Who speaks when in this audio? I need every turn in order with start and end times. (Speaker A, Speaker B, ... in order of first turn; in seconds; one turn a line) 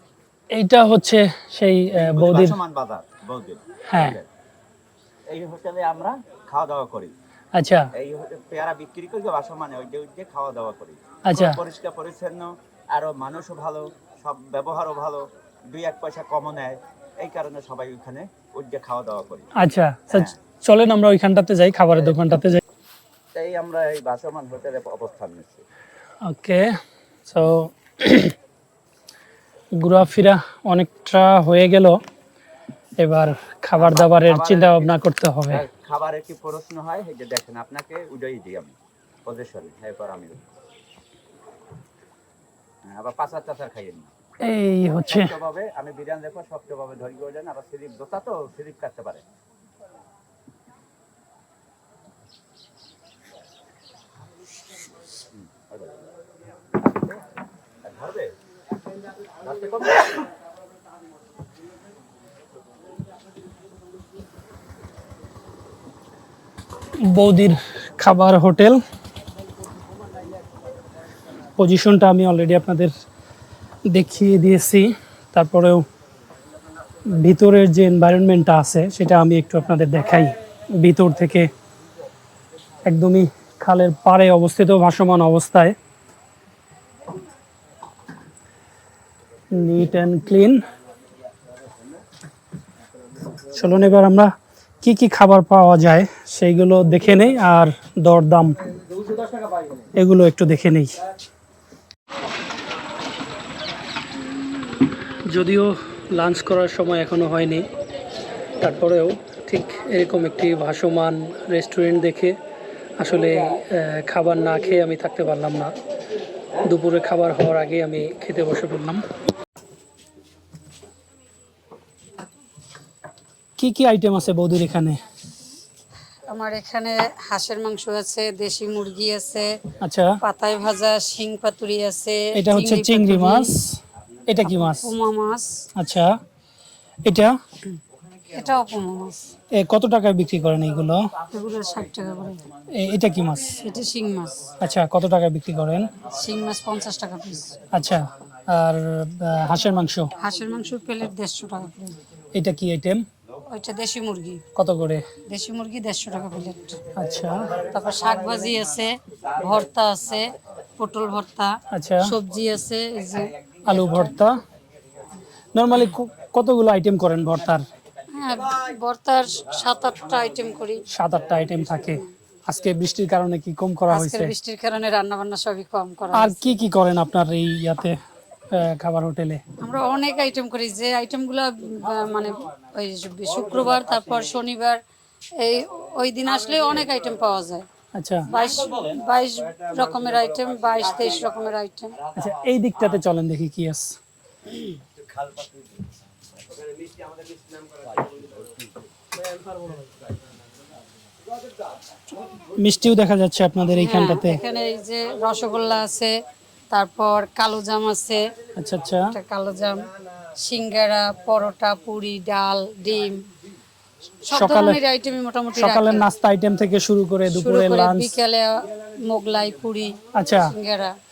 Speaker A: 0.5-2.6
Speaker B: 1.9-4.3
Speaker A: 3.9-4.2
Speaker B: 5.3-7.1
Speaker A: 7.5-7.9
Speaker B: 7.9-19.5
Speaker A: 11.3-11.6
Speaker A: 19.6-22.6
Speaker B: 20.1-20.4
Speaker B: 23.3-25.6
Speaker A: 26.2-26.7
Speaker A: 27.3-28.4
Speaker A: 29.8-32.0
Speaker A: 33.0-35.6
Speaker B: 33.8-40.4
Speaker B: 42.8-44.1
Speaker A: 44.4-45.3
Speaker B: 45.1-49.2
Speaker B: 55.3-56.0
Speaker B: 57.8-58.3
Speaker B: 59.4-60.2
Speaker A: 67.0-68.8
Speaker A: 71.6-72.9
Speaker A: 73.9-75.8
Speaker A: 77.1-81.5
Speaker A: 82.9-85.8
Speaker A: 89.5-90.6
Speaker A: 93.5-98.6
Speaker A: 99.9-101.0
Speaker A: 105.3-107.7
Speaker A: 108.6-112.4
Speaker A: 113.0-115.8
Speaker A: 116.6-119.0
Speaker A: 123.6-125.0
Speaker C: 126.3-129.6
Speaker A: 129.8-130.2
Speaker C: 130.2-133.6
Speaker A: 132.3-134.9
Speaker C: 134.4-135.6
Speaker A: 135.8-136.2
Speaker A: 137.1-137.4
Speaker C: 138.3-139.3
Speaker A: 139.5-141.1
Speaker C: 141.3-142.5
Speaker A: 142.8-143.6
Speaker C: 143.5-144.5
Speaker A: 144.6-145.9
Speaker C: 146.1-147.6
Speaker A: 147.7-150.1
Speaker C: 150.2-152.0
Speaker A: 152.3-153.1
Speaker C: 153.5-154.4
Speaker A: 154.6-155.1
Speaker C: 155.3-156.8
Speaker A: 156.9-157.6
Speaker C: 157.6-164.0
Speaker A: 161.7-162.2
Speaker A: 163.7-164.4
Speaker A: 165.6-167.7
Speaker C: 168.2-170.8
Speaker A: 170.9-174.3
Speaker C: 173.9-176.5
Speaker A: 176.1-178.0
Speaker A: 178.5-179.4
Speaker C: 179.6-184.8
Speaker C: 185.4-187.7
Speaker A: 187.9-188.3
Speaker C: 188.3-192.0
Speaker A: 192.2-194.0
Speaker B: 195.3-195.5
Speaker B: 198.0-198.6
Speaker A: 202.6-204.4
Speaker C: 203.8-206.1
Speaker C: 206.7-208.2
Speaker A: 208.6-209.1
Speaker C: 209.1-213.2
Speaker C: 214.3-216.0
Speaker A: 214.3-214.8
Speaker A: 215.6-218.1
Speaker C: 217.3-221.0
Speaker A: 220.1-220.5